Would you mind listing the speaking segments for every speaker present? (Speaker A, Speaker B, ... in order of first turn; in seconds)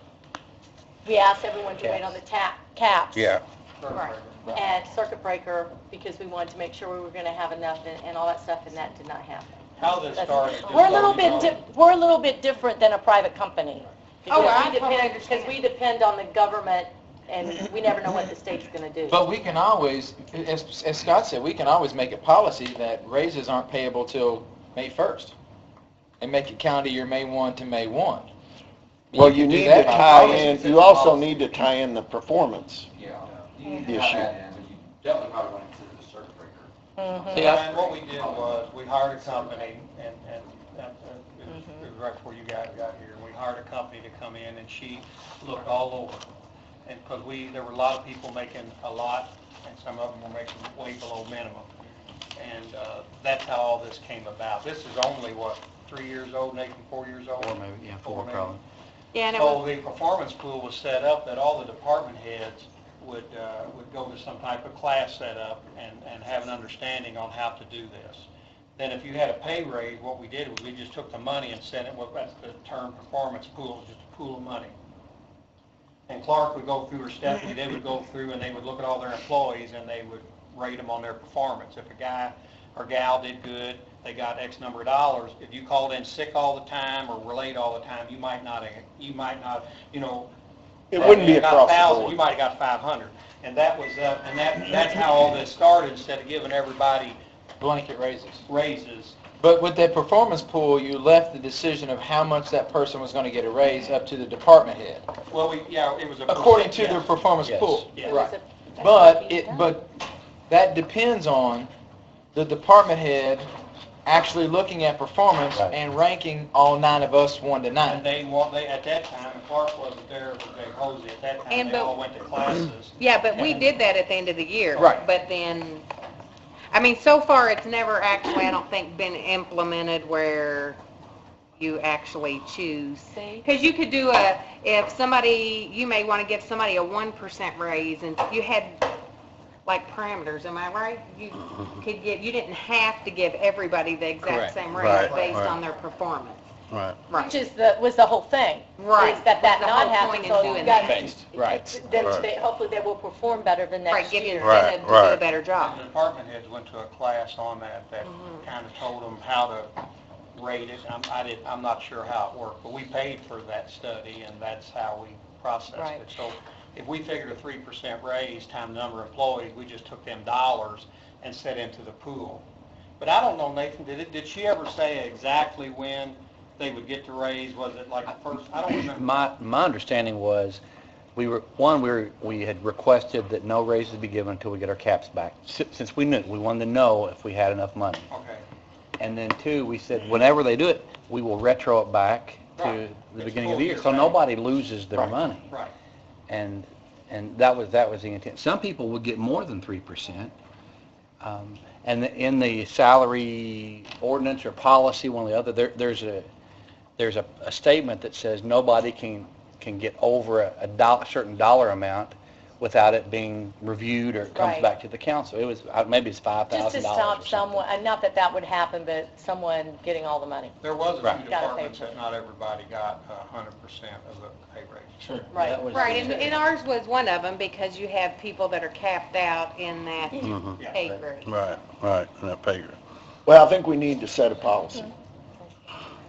Speaker A: 1.0-3.4, 4.5-19.2, 33.7-34.0, 37.0-37.5, 41.5-41.9, 108.0-109.7, 147.2-154.6, 214.3-214.7, 216.5-220.5, 221.2-221.9, 225.3-225.7
Speaker B: 1.8-2.2, 57.4-58.6, 107.4-107.8, 144.2-144.5, 150.2-151.6, 178.7-180.6, 181.2-188.1, 189.0-195.5, 196.3-200.3, 201.2-206.3, 207.0-217.7, 225.1-226.4
Speaker C: 3.8-4.6, 9.8-11.6, 37.3-46.2, 46.8-51.7, 52.4-58.6, 59.3-74.7, 76.1-90.3, 90.9-97.2, 98.5-99.2, 105.3-107.1, 107.9-108.2, 117.9-123.6, 144.7-145.6, 155.6-159.7, 160.3-172.4, 173.0-179.1, 188.1-188.4, 192.6-194.2, 195.5-195.7, 220.6-225.1, 230.6-230.9
Speaker D: 3.9-4.2, 14.3-15.6, 59.1-59.6, 121.5-122.0, 123.0-125.8, 126.7-130.8, 131.6-138.9, 139.6-146.4, 147.1-147.4, 148.8-151.0, 153.9-155.8, 158.1-158.4, 225.7-231.3
Speaker E: 19.1-25.3, 26.2-28.3, 29.1-31.4, 97.6-98.5, 99.4-105.1, 106.3-111.7, 112.3-113.5, 114.0-118.0, 124.8-125.0
Speaker F: 29.1-32.9, 33.8-34.3, 90.9-92.2, 233.2-234.9
Speaker G: 33.0-39.7
Speaker H: 144.7-145.6, 146.7-147.0, 151.9-152.2, 154.4-155.2, 230.2-230.6, 231.2-232.8